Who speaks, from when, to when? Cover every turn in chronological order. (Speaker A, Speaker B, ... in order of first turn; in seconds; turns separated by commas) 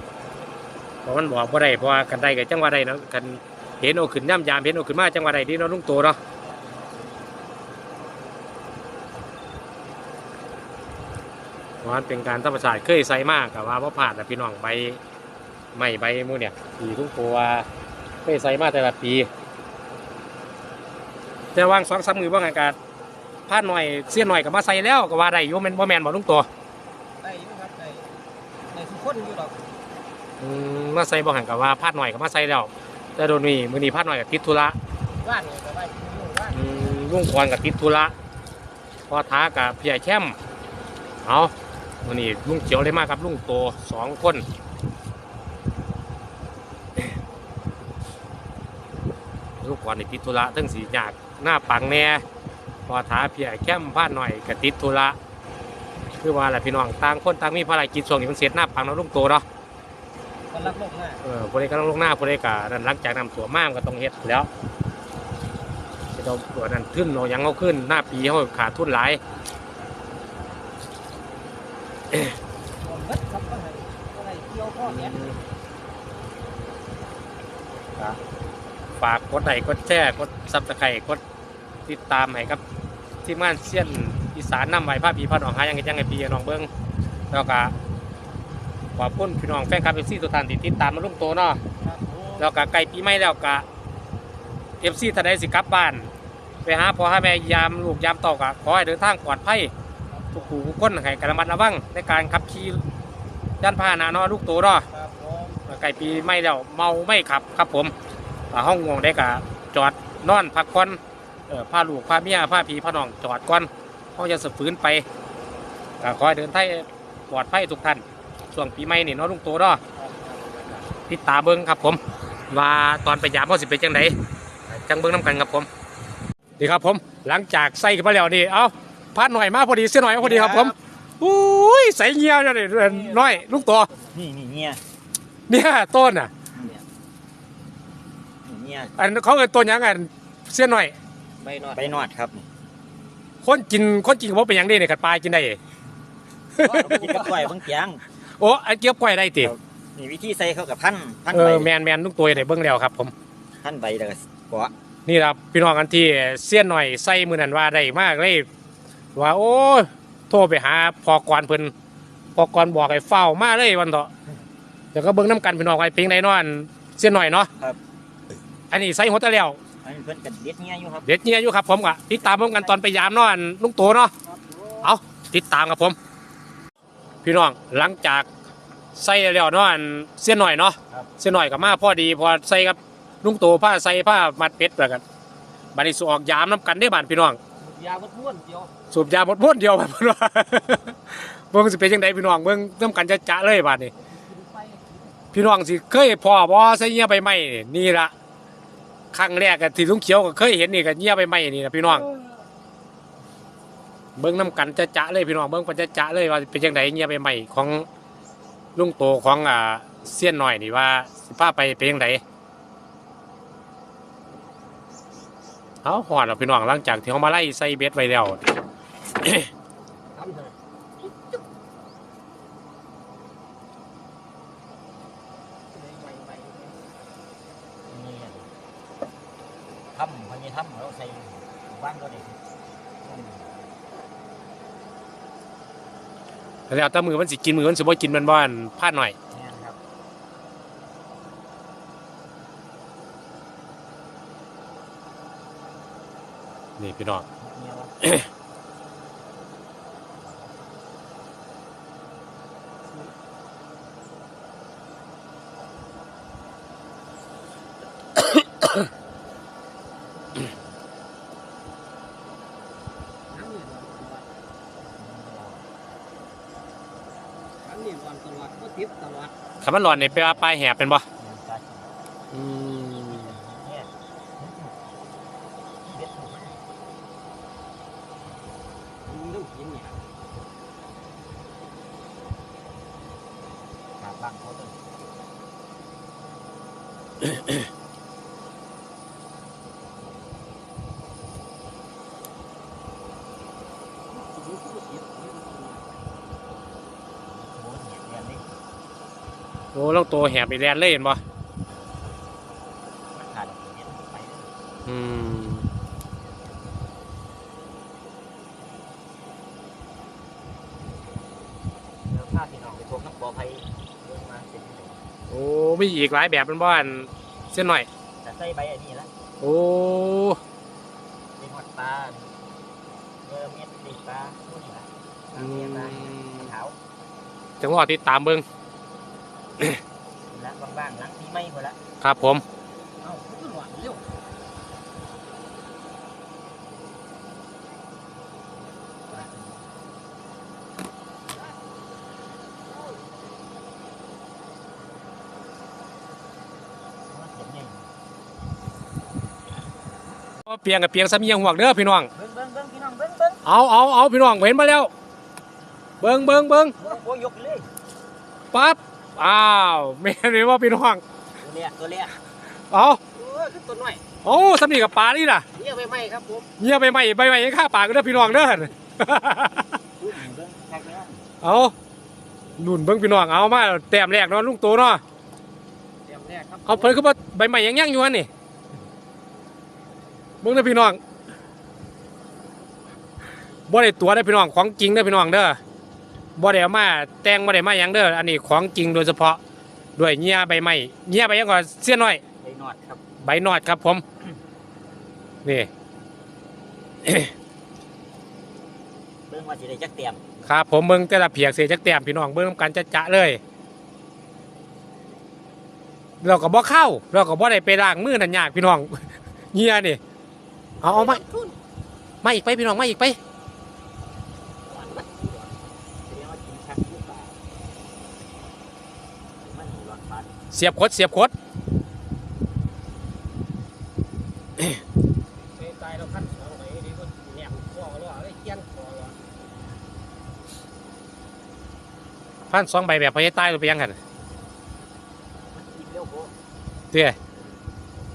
Speaker A: 1.0-6.2, Speaker B: 6.4-7.2, Speaker A: 11.8-15.0, Speaker A: 15.7-17.6, Speaker A: 18.2-19.3, Speaker A: 21.5-22.8, Speaker A: 23.5-26.5, Speaker B: 27.2-28.1, Speaker B: 28.7-29.6, Speaker A: 30.4-34.8, Speaker B: 35.2-36.6, Speaker A: 36.5-38.1, Speaker A: 39.1-40.4, Speaker A: 41.2-41.5, Speaker A: 42.0-44.4, Speaker A: 49.6-52.2, Speaker A: 52.9-55.2, Speaker A: 56.2-59.4, Speaker B: 60.5-61.2, Speaker A: 61.2-64.5, Speaker A: 66.1-69.2, Speaker B: 72.8-75.1, Speaker A: 74.8-75.4, Speaker A: 79.0-81.2, Speaker A: 81.8-82.6, Speaker A: 83.2-86.7, Speaker A: 87.3-87.7, Speaker A: 89.0-91.6, Speaker B: 91.8-92.5, Speaker A: 92.4-93.7, Speaker A: 94.8-96.1, Speaker A: 96.6-99.7, Speaker B: 100.1-100.6, Speaker A: 100.3-102.8, Speaker A: 103.6-104.8, Speaker B: 104.9-105.6, Speaker A: 105.7-107.9, Speaker A: 108.5-115.0, Speaker A: 116.0-119.8, Speaker B: 120.0-120.7, Speaker A: 121.1-124.1, Speaker A: 124.7-125.7, Speaker A: 126.6-133.9, Speaker C: 130.2-130.7, Speaker B: 130.2-130.6, Speaker B: 132.7-134.2, Speaker C: 134.1-134.8, Speaker A: 135.5-136.3, Speaker C: 138.4-138.9, Speaker A: 139.0-140.9, Speaker B: 141.4-142.0, Speaker C: 141.7-142.4, Speaker A: 143.4-145.6, Speaker A: 146.6-147.2, Speaker B: 146.6-147.5, Speaker C: 146.6-148.0, Speaker A: 148.4-149.5, Speaker C: 149.4-151.7, Speaker A: 151.3-153.1, Speaker C: 153.6-154.7, Speaker A: 155.1-158.5, Speaker A: 159.2-161.7, Speaker A: 162.3-164.1, Speaker A: 164.9-167.5, Speaker A: 168.7-169.6, Speaker C: 169.8-171.1, Speaker A: 171.0-174.1, Speaker B: 174.3-174.8, Speaker A: 174.8-175.9, Speaker A: 177.2-178.3, Speaker A: 178.9-185.0, Speaker A: 185.7-187.4, Speaker B: 187.6-188.7, Speaker A: 188.9-193.9, Speaker B: 194.0-195.2, Speaker A: 195.3-198.1, Speaker A: 199.1-202.0, Speaker B: 201.8-202.4, Speaker A: 204.2-207.8, Speaker A: 208.8-212.2, Speaker A: 215.8-218.4, Speaker A: 219.2-219.5, Speaker B: 220.1-221.4, Speaker B: 225.7-226.8, Speaker C: 227.9-228.5, Speaker C: 229.9-232.4, Speaker C: 233.0-233.5, Speaker A: 236.7-239.2, Speaker C: 239.3-239.8, Speaker A: 246.8-247.2, Speaker C: 247.4-247.9, Speaker B: 263.3-264.3, Speaker C: 264.8-265.6, Speaker B: 267.6-269.3, Speaker A: 269.6-271.0, Speaker C: 269.9-270.4, Speaker C: 271.2-271.9, Speaker A: 272.3-273.3, Speaker C: 273.1-274.8, Speaker C: 275.8-276.6, Speaker B: 279.0-280.0, Speaker C: 284.0-284.8, Speaker B: 294.1-296.1, Speaker C: 297.2-298.5, Speaker A: 299.7-301.2, Speaker C: 303.1-304.5, Speaker A: 304.9-305.6, Speaker C: 312.1-315.1, Speaker A: 315.3-317.9, Speaker C: 318.2-319.1, Speaker A: 319.4-320.4, Speaker C: 321.4-322.4, Speaker C: 323.2-326.8, Speaker A: 325.3-326.5, Speaker A: 327.6-328.4, Speaker C: 330.3-331.8, Speaker A: 332.0-332.4, Speaker B: 333.0-334.0, Speaker C: 339.1-339.7, Speaker C: 347.1-347.9, Speaker A: 350.4-352.1, Speaker C: 352.1-353.4, Speaker A: 353.4-354.9, Speaker A: 356.0-356.7, Speaker C: 356.8-357.7, Speaker A: 358.5-361.0, Speaker C: 361.4-362.1, Speaker A: 362.7-363.0, Speaker B: 363.1-364.0, Speaker A: 364.2-365.4, Speaker B: 365.5-366.5, Speaker A: 366.6-369.7, Speaker C: 369.9-371.2, Speaker A: 371.4-371.7, Speaker A: 372.6-375.0, Speaker B: 376.1-377.0, Speaker A: 376.7-378.3, Speaker A: 380.4-381.0, Speaker A: 383.7-385.6, Speaker A: 386.4-389.4, Speaker A: 390.0-392.2, Speaker C: 392.4-393.0, Speaker A: 393.2-394.0, Speaker A: 395.4-395.7, Speaker A: 397.0-397.3, Speaker C: 399.3-400.2, Speaker A: 400.4-403.4, Speaker A: 406.2-410.0, Speaker A: 410.8-411.2, Speaker B: 410.8-411.6, Speaker A: 412.2-413.2, Speaker C: 414.7-417.4, Speaker C: 419.5-420.3, Speaker A: 420.5-421.3, Speaker B: 425.5-429.2, Speaker A: 432.5-434.0, Speaker C: 435.5-436.3